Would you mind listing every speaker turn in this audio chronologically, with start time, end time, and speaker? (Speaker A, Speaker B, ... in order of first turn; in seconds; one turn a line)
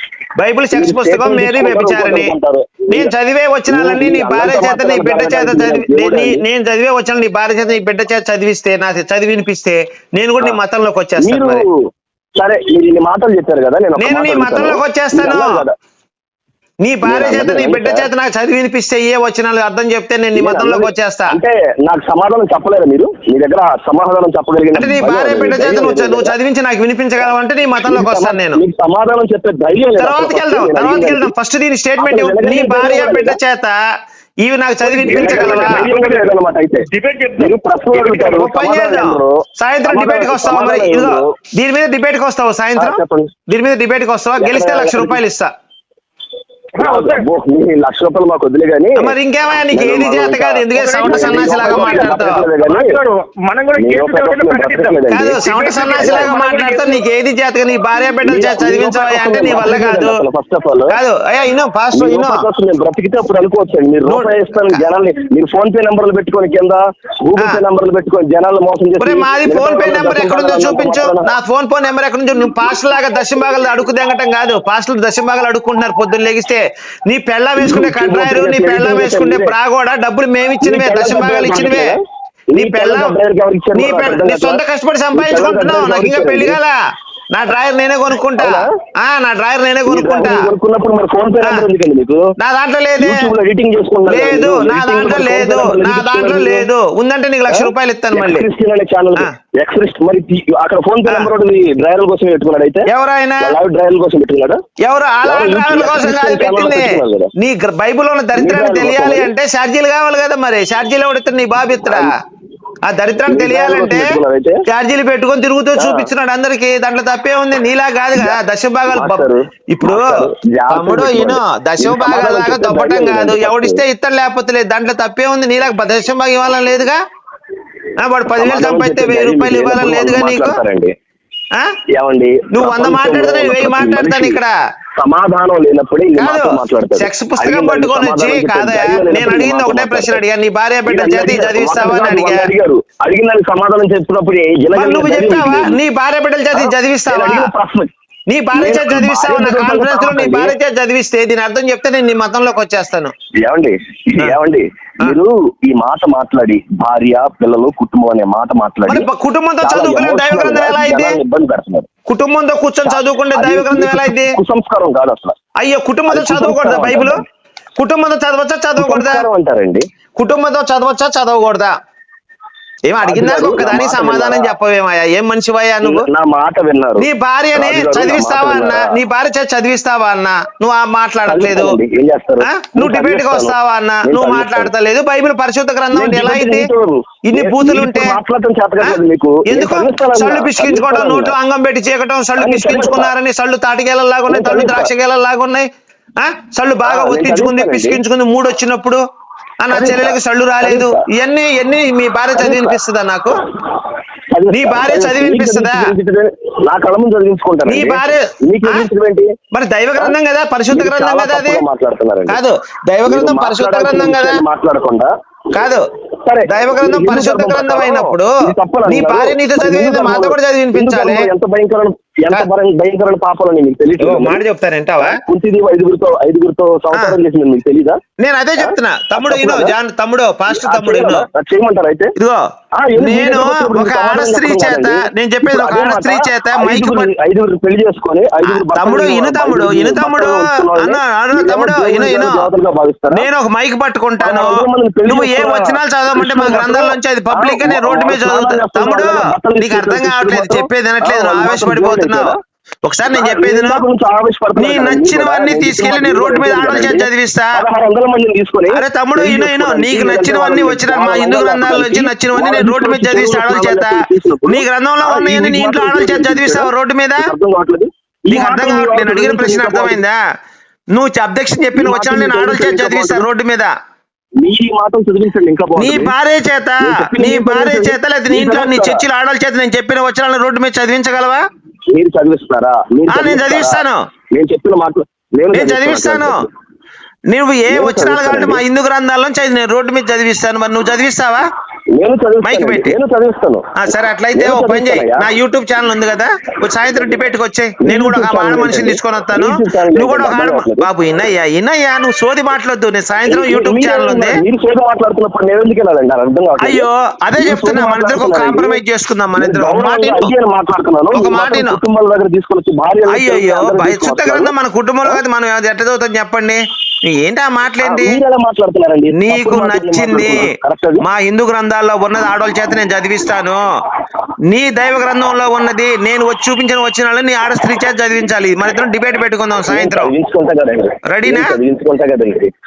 Speaker A: 0.4-2.3
Speaker B: 0.7-3.1
Speaker A: 2.9-11.7
Speaker B: 3.7-6.4
Speaker B: 11.2-11.7
Speaker B: 12.4-15.7
Speaker A: 14.0-15.5
Speaker A: 16.8-21.4
Speaker B: 17.0-18.1
Speaker B: 20.4-26.4
Speaker A: 24.7-28.6
Speaker B: 27.8-31.3
Speaker A: 30.0-33.8
Speaker B: 32.0-33.4
Speaker A: 34.4-35.9
Speaker C: 34.9-38.3
Speaker B: 35.0-36.9
Speaker B: 37.4-39.3
Speaker A: 38.2-45.5
Speaker B: 39.9-41.3
Speaker B: 42.8-43.3
Speaker B: 44.4-45.2
Speaker C: 46.8-47.2
Speaker B: 46.8-49.1
Speaker A: 49.0-52.5
Speaker B: 49.7-53.0
Speaker C: 50.8-57.0
Speaker B: 53.8-55.4
Speaker A: 55.1-60.2
Speaker B: 56.0-56.4
Speaker B: 58.2-61.0
Speaker A: 60.9-62.5
Speaker B: 61.9-71.3
Speaker A: 64.0-64.8
Speaker A: 69.0-82.0
Speaker B: 77.6-79.5
Speaker B: 80.6-82.0
Speaker B: 82.5-84.6
Speaker A: 82.5-83.2
Speaker A: 83.7-86.8
Speaker B: 85.1-86.6
Speaker A: 87.3-90.5
Speaker B: 88.4-88.7
Speaker B: 89.9-92.2
Speaker A: 91.4-91.7
Speaker A: 92.4-93.3
Speaker B: 93.0-96.7
Speaker A: 94.1-98.5
Speaker B: 97.5-102.9
Speaker A: 101.1-101.3
Speaker A: 102.9-103.6
Speaker B: 103.4-104.6
Speaker A: 104.8-112.1
Speaker B: 105.2-107.3
Speaker B: 108.4-109.3
Speaker B: 111.8-112.1
Speaker A: 112.8-114.1
Speaker B: 113.3-114.6
Speaker A: 114.7-127.0
Speaker B: 115.8-116.1
Speaker B: 118.2-123.8
Speaker A: 128.0-130.6
Speaker B: 128.4-130.9
Speaker B: 131.9-134.4
Speaker A: 132.5-134.5
Speaker B: 135.0-140.2
Speaker A: 136.2-142.5
Speaker B: 140.9-145.8
Speaker A: 144.7-147.5
Speaker B: 146.5-147.9
Speaker A: 148.3-153.1
Speaker B: 148.5-150.6
Speaker B: 153.4-159.1
Speaker A: 158.9-161.2
Speaker B: 159.6-161.9
Speaker A: 162.1-164.4
Speaker B: 162.8-165.3
Speaker A: 165.6-167.2
Speaker B: 166.1-167.2
Speaker A: 167.8-169.3
Speaker B: 168.8-169.8
Speaker A: 170.2-171.7
Speaker A: 172.9-176.1
Speaker B: 173.0-174.5
Speaker B: 175.8-179.0
Speaker A: 177.0-181.8
Speaker B: 181.3-183.5
Speaker A: 182.5-186.7
Speaker B: 184.1-184.7
Speaker B: 185.9-191.3
Speaker A: 187.3-188.2
Speaker A: 188.8-199.0
Speaker B: 192.4-193.1
Speaker B: 194.3-194.9
Speaker B: 196.8-198.0
Speaker A: 199.6-203.4
Speaker B: 199.7-201.0
Speaker B: 202.3-202.8
Speaker B: 204.3-209.3
Speaker A: 204.5-205.9
Speaker A: 207.7-208.9
Speaker A: 209.5-211.6
Speaker B: 210.7-212.4
Speaker A: 212.3-214.4
Speaker B: 213.1-215.1
Speaker A: 215.5-215.9
Speaker B: 216.2-224.4
Speaker A: 216.5-218.3
Speaker A: 218.9-221.3
Speaker A: 224.0-225.2
Speaker B: 225.0-228.0
Speaker A: 228.2-231.3
Speaker B: 228.6-229.7
Speaker B: 230.5-232.1
Speaker B: 232.8-243.3
Speaker A: 233.0-237.1
Speaker A: 238.4-242.5
Speaker A: 243.1-253.8
Speaker B: 244.2-252.4
Speaker B: 253.1-270.0
Speaker A: 254.6-257.6
Speaker A: 258.8-267.3
Speaker A: 268.3-270.2
Speaker A: 270.9-273.7
Speaker B: 271.8-273.3
Speaker B: 274.4-276.1
Speaker A: 275.8-281.4
Speaker B: 276.8-279.1
Speaker B: 281.9-286.5
Speaker A: 283.1-284.0
Speaker A: 285.5-286.4
Speaker A: 287.3-291.4
Speaker B: 287.7-288.6
Speaker B: 292.0-293.6
Speaker A: 292.4-293.0
Speaker A: 293.8-304.4
Speaker B: 294.4-295.3
Speaker B: 297.8-300.9
Speaker B: 303.3-308.8
Speaker A: 306.6-310.3
Speaker B: 309.4-314.5
Speaker A: 311.1-311.8
Speaker A: 313.1-318.2
Speaker B: 317.8-321.0
Speaker A: 319.1-320.5
Speaker A: 321.0-323.6
Speaker A: 324.5-330.1
Speaker B: 329.7-332.5
Speaker A: 331.1-331.6